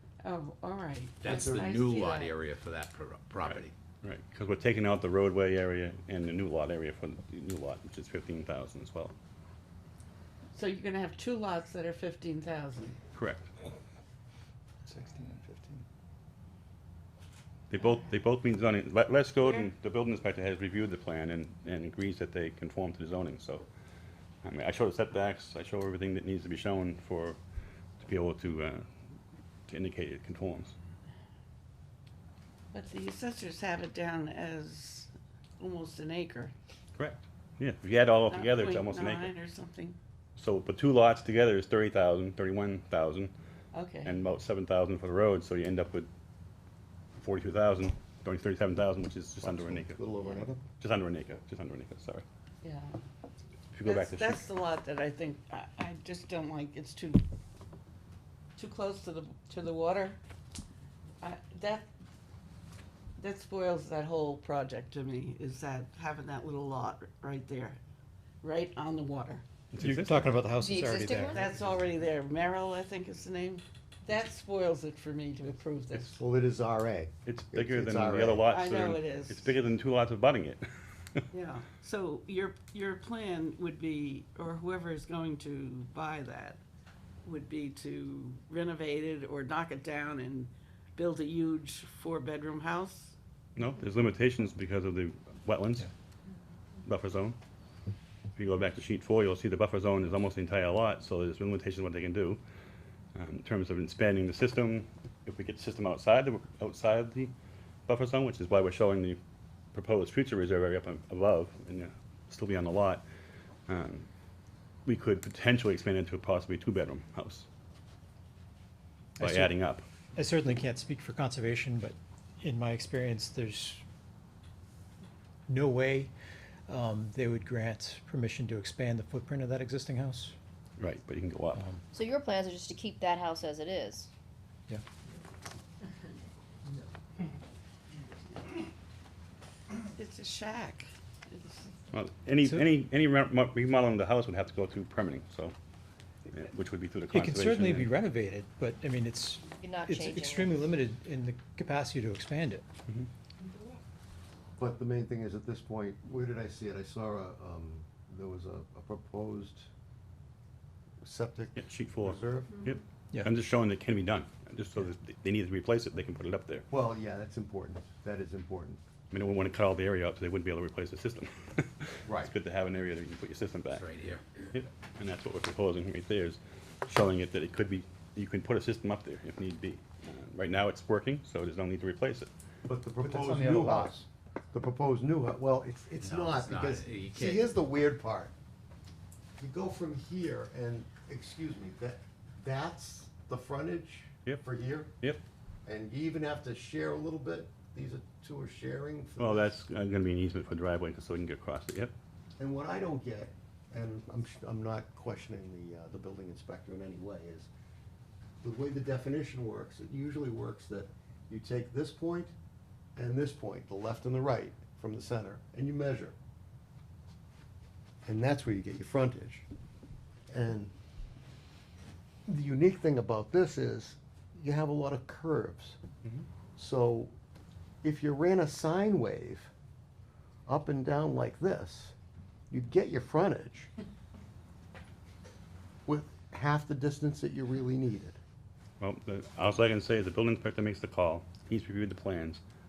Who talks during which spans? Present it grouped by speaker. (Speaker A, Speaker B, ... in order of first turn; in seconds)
Speaker A: 0.2-2.4, 10.5-13.0, 19.4-19.7, 32.7-36.5, 38.3-40.0, 43.7-44.2, 52.6-53.0, 53.8-57.2, 58.6-60.2, 61.2-61.9, 63.2-67.8, 68.4-69.5, 71.3-76.2, 78.5-79.5, 81.3-86.6, 87.2-93.2, 140.0-141.7
Speaker B: 1.2-3.7, 173.7-174.2, 186.0-187.5
Speaker C: 1.2-1.7, 14.9-15.8, 49.4-50.6, 75.9-78.5, 154.6-159.7, 161.0-162.6, 166.7-168.8, 172.1-172.3, 182.7-184.0, 184.5-188.3, 189.4-195.0, 195.7-199.6, 202.4-207.5, 208.4-212.3, 213.0-216.2, 218.1-219.5, 220.3-220.7, 222.3-225.8, 226.6-227.1, 227.8-229.5, 230.5-231.9, 232.5-233.7, 235.9-238.2
Speaker D: 3.4-9.2, 13.1-13.5, 17.7-23.6, 24.4-27.4, 28.0-28.9, 29.7-30.8, 37.0-39.3, 40.4-43.3, 44.0-46.1, 47.2-50.0, 50.8-52.2, 53.7-54.5, 69.7-70.4, 77.3-81.2, 93.6-95.9, 96.9-97.4, 98.4-102.4, 103.2-107.3, 107.9-109.2, 109.7-113.0, 113.7-114.1, 114.9-117.5, 119.2-119.8, 130.8-131.7, 141.9-145.5, 146.3-147.9, 161.6-166.7, 169.1-173.9, 174.5-182.3, 199.2-201.9, 238.8-242.4
Speaker E: 69.8-71.5, 119.2-119.5, 120.2-123.8, 125.5-126.1, 126.7-130.4, 131.6-131.8, 147.1-152.6, 183.0-184.1
Speaker F: 70.6-71.4, 131.9-134.1, 149.6-150.5